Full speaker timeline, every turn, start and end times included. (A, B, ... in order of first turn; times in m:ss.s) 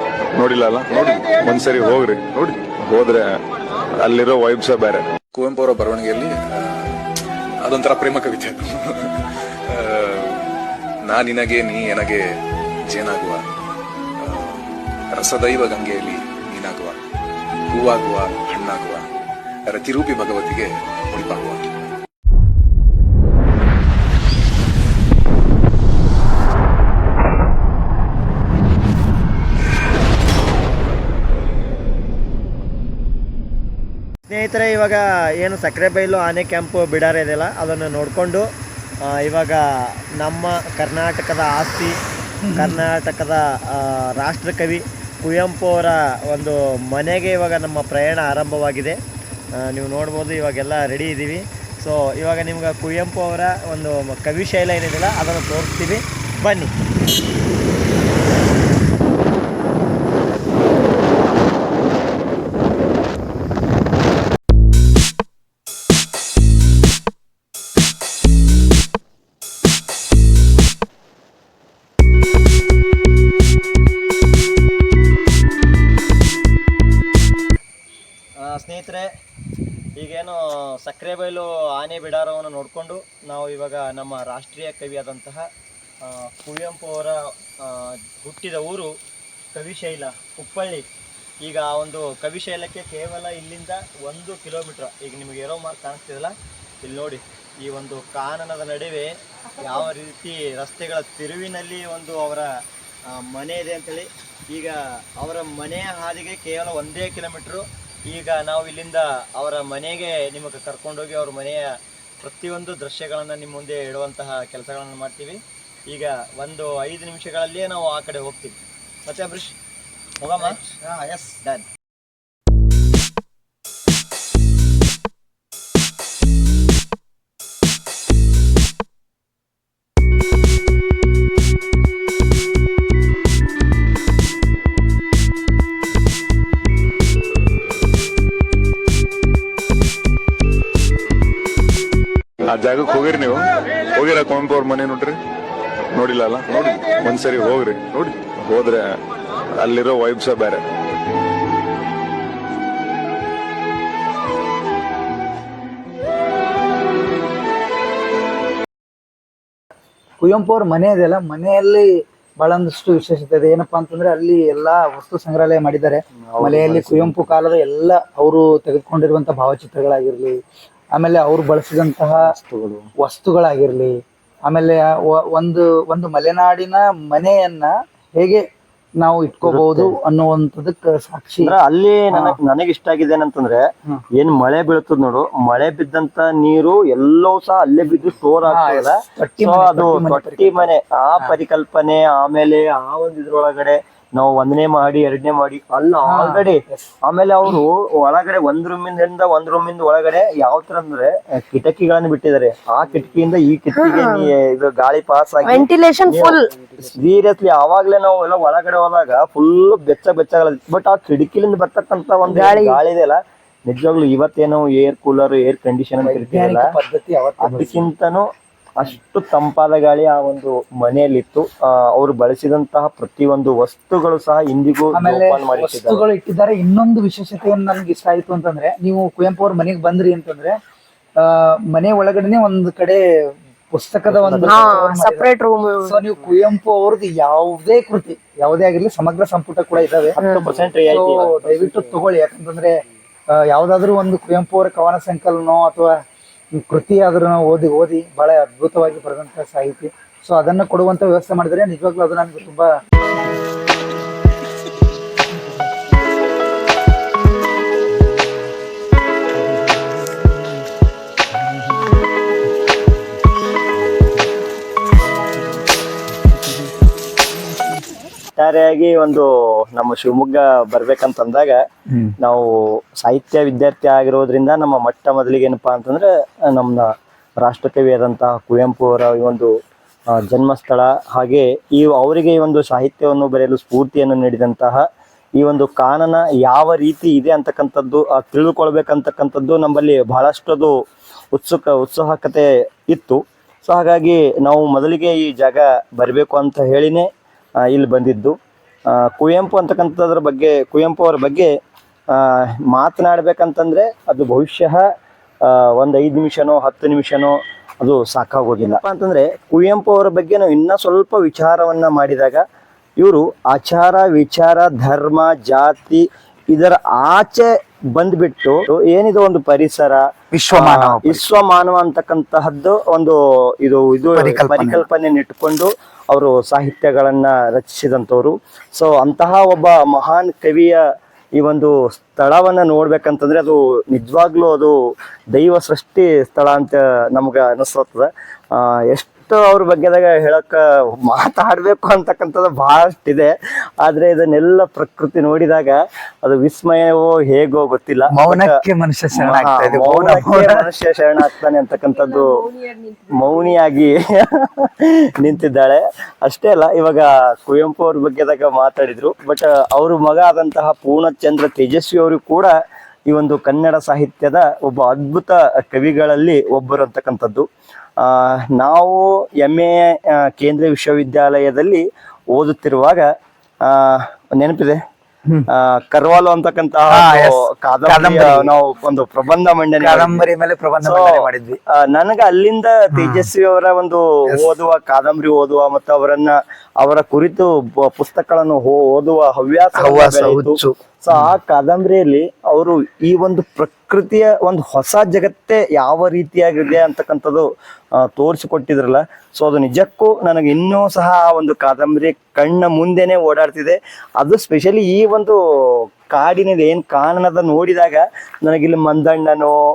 0:00.4-0:03.4 A
0:04.0-0:05.0 A
0:05.3-0:06.9 B
0:07.6-0:09.2 B
0:09.7-0:10.4 B
0:11.0-0:12.3 B
0:12.9-0:13.5 B
0:14.2-0:17.0 B
0:17.7-0:19.1 B
0:19.7-0:21.8 B
0:34.3-0:38.4 C
0:39.2-0:39.6 C
0:40.2-0:41.9 C
0:42.4-0:42.8 D
0:42.6-0:43.4 C
0:44.2-0:49.0 C
0:49.7-0:56.7 C
1:18.4-1:19.1 C
1:20.0-1:25.5 C
1:26.1-1:28.9 C
1:29.6-1:30.8 C
1:31.4-1:39.1 C
1:39.6-1:42.5 C
1:43.2-1:51.7 C
1:52.2-1:59.5 C
2:00.2-2:01.6 C
2:22.5-2:25.2 A
2:26.0-2:29.0 A
2:29.6-2:30.6 A
2:40.2-2:41.9 D
2:42.4-2:50.4 D
2:46.3-2:47.3 C
2:51.0-2:52.3 D
2:52.2-2:52.9 C
2:53.0-2:54.0 D
2:54.5-2:58.5 D
2:59.0-3:01.5 D
2:59.5-2:59.9 C
3:01.4-3:03.7 C
3:02.1-3:02.4 D
3:04.2-3:36.7 C
3:08.5-3:11.4 D
3:16.0-3:16.9 D
3:23.7-3:24.3 E
3:25.4-3:26.4 E
3:32.3-3:32.8 E
3:36.0-3:37.9 D
3:37.4-3:46.0 C
3:44.9-3:50.6 D
3:51.2-3:53.0 D
3:53.7-3:55.2 D
3:54.1-3:54.7 C
3:54.4-3:56.0 E
3:55.8-4:00.2 D
4:00.2-4:01.8 C
4:00.9-4:02.8 D
4:03.4-4:06.0 D
4:06.6-4:12.7 D
4:28.4-4:31.6 C
4:32.2-4:32.5 C
4:33.0-4:39.5 C
4:40.1-4:44.8 C
4:45.4-4:50.8 C
4:51.3-4:57.1 C
4:57.7-4:58.4 C
4:58.9-5:01.5 C
5:02.1-5:04.9 C
5:05.4-5:12.4 C
5:13.0-5:30.8 C
5:20.3-5:21.2 D
5:24.2-5:24.8 D
5:31.4-5:34.8 C
5:35.3-5:48.5 C
5:48.1-5:50.7 D
5:49.2-5:52.5 C
5:53.1-6:02.5 C
6:03.1-6:07.5 C
6:08.0-6:13.0 C
6:13.6-6:14.8 C
6:15.5-6:20.2 C
6:16.9-6:18.5 D
6:19.8-6:21.6 D
6:20.8-6:21.2 C
6:21.7-6:37.5 C
6:22.9-6:23.3 D
6:29.8-6:31.3 D
6:38.0-6:49.6 C